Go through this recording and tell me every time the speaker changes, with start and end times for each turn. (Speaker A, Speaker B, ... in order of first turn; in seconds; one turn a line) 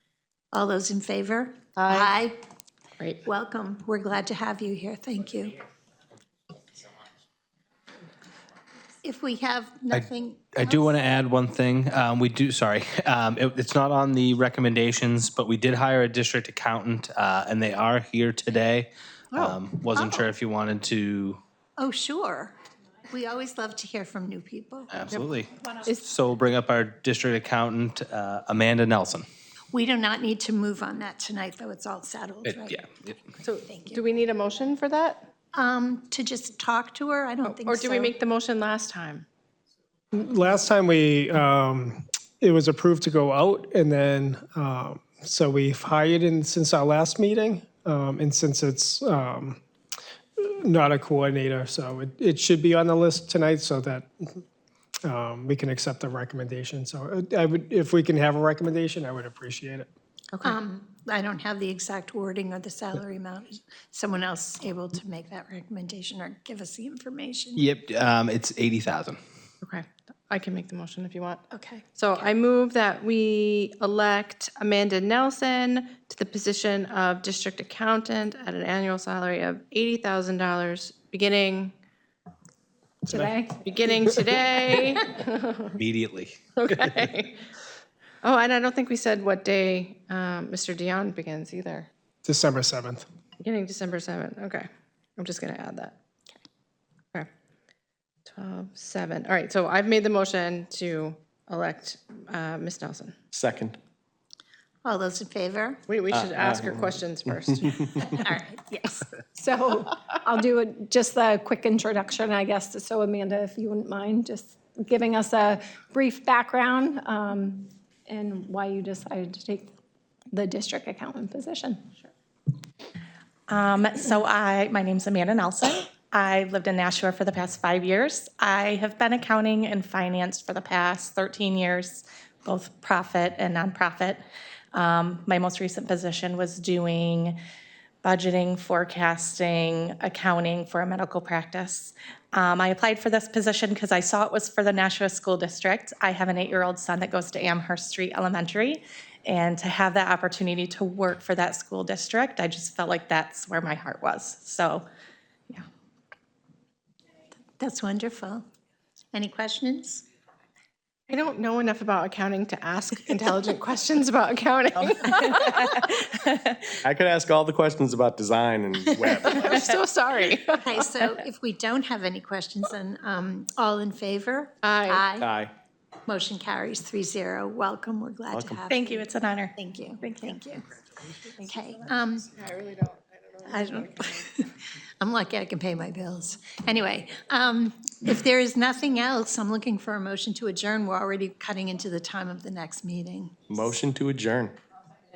Speaker A: 0.5-2.4
Speaker B: 1.8-2.1
Speaker A: 3.3-5.6
Speaker A: 9.0-11.0
Speaker C: 10.6-21.4
Speaker A: 19.4-20.2
Speaker A: 21.8-22.5
Speaker A: 23.1-25.0
Speaker C: 24.9-29.2
Speaker A: 29.7-32.9
Speaker C: 32.5-32.8
Speaker B: 33.4-35.2
Speaker A: 33.6-34.0
Speaker A: 35.5-38.1
Speaker B: 37.5-39.2
Speaker D: 40.1-49.6
Speaker D: 50.4-54.4
Speaker D: 55.0-59.9
Speaker A: 60.4-67.7
Speaker C: 67.6-69.2
Speaker B: 69.6-71.4
Speaker A: 71.5-71.9
Speaker B: 72.0-81.7
Speaker E: 83.0-84.0
Speaker D: 83.1-83.4
Speaker B: 83.7-85.4
Speaker C: 85.8-86.3
Speaker B: 86.6-87.3
Speaker B: 88.2-91.9
Speaker D: 92.2-93.1
Speaker B: 93.4-96.0
Speaker B: 98.3-103.2
Speaker F: 103.3-103.8
Speaker A: 104.8-105.8
Speaker B: 105.9-108.0
Speaker F: 106.1-107.0
Speaker A: 108.0-109.1
Speaker E: 109.3-119.7
Speaker E: 120.3-121.9
Speaker G: 123.5-134.2
Speaker G: 134.7-137.4
Speaker G: 138.0-154.8
Speaker A: 157.6-158.4
Speaker A: 159.1-160.1
Speaker B: 161.1-165.8
Speaker G: 165.0-166.3
Speaker F: 166.8-169.6
Speaker G: 169.3-169.6
Speaker B: 169.4-170.6
Speaker A: 170.6-175.3
Speaker B: 174.7-175.0
Speaker F: 175.2-175.5
Speaker A: 176.1-180.6
Speaker F: 178.3-178.6
Speaker G: 178.7-180.4
Speaker A: 181.2-182.3
Speaker B: 182.4-182.9
Speaker A: 183.4-193.5
Speaker F: 193.5-194.6